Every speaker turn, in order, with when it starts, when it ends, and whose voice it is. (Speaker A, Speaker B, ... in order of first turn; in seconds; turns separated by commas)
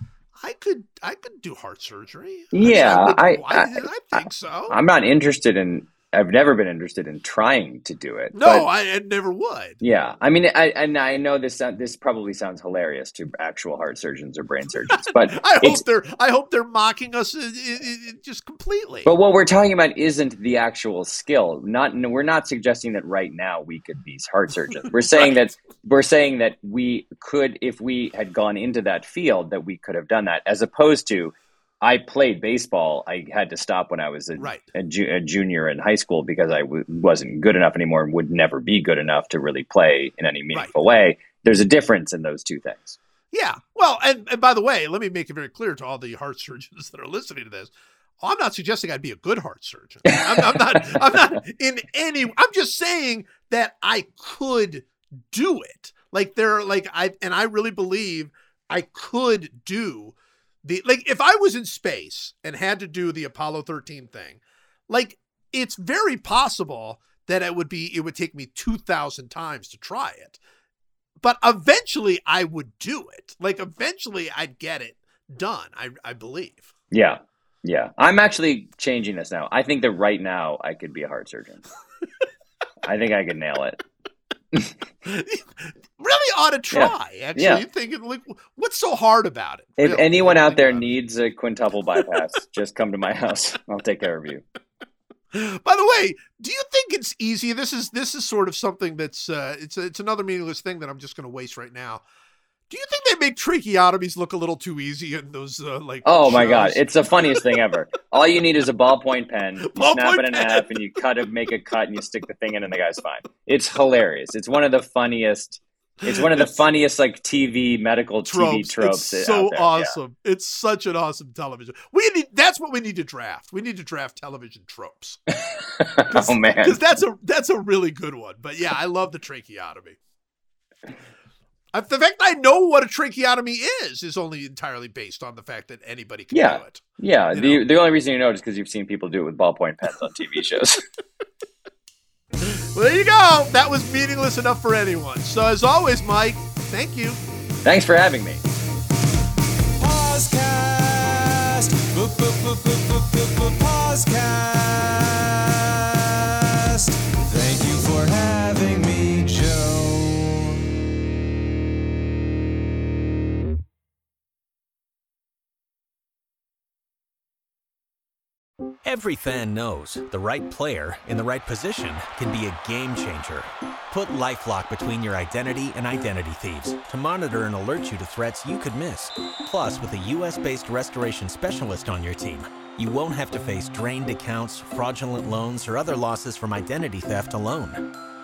Speaker A: 0.4-4.8, Speaker B: 2.5-8.7, Speaker A: 8.3-9.8, Speaker B: 9.8-15.8, Speaker A: 14.9-19.1, Speaker B: 19.0-43.0, Speaker A: 34.4-34.6, Speaker A: 43.3-70.4, Speaker A: 71.2-76.7, Speaker B: 76.9-81.6, Speaker B: 82.8-83.8, Speaker A: 85.0-90.8, Speaker B: 86.7-87.6, Speaker B: 89.8-94.4, Speaker A: 95.3-102.0, Speaker A: 102.7-107.5, Speaker B: 106.0-119.9, Speaker A: 109.7-110.7, Speaker A: 116.1-116.5, Speaker A: 118.2-125.2, Speaker B: 125.4-126.8, Speaker A: 126.1-130.0, Speaker A: 131.7-137.6, Speaker B: 136.3-140.8, Speaker A: 142.4-147.2, Speaker B: 147.6-148.4, Speaker C: 149.8-160.6, Speaker D: 168.8-187.9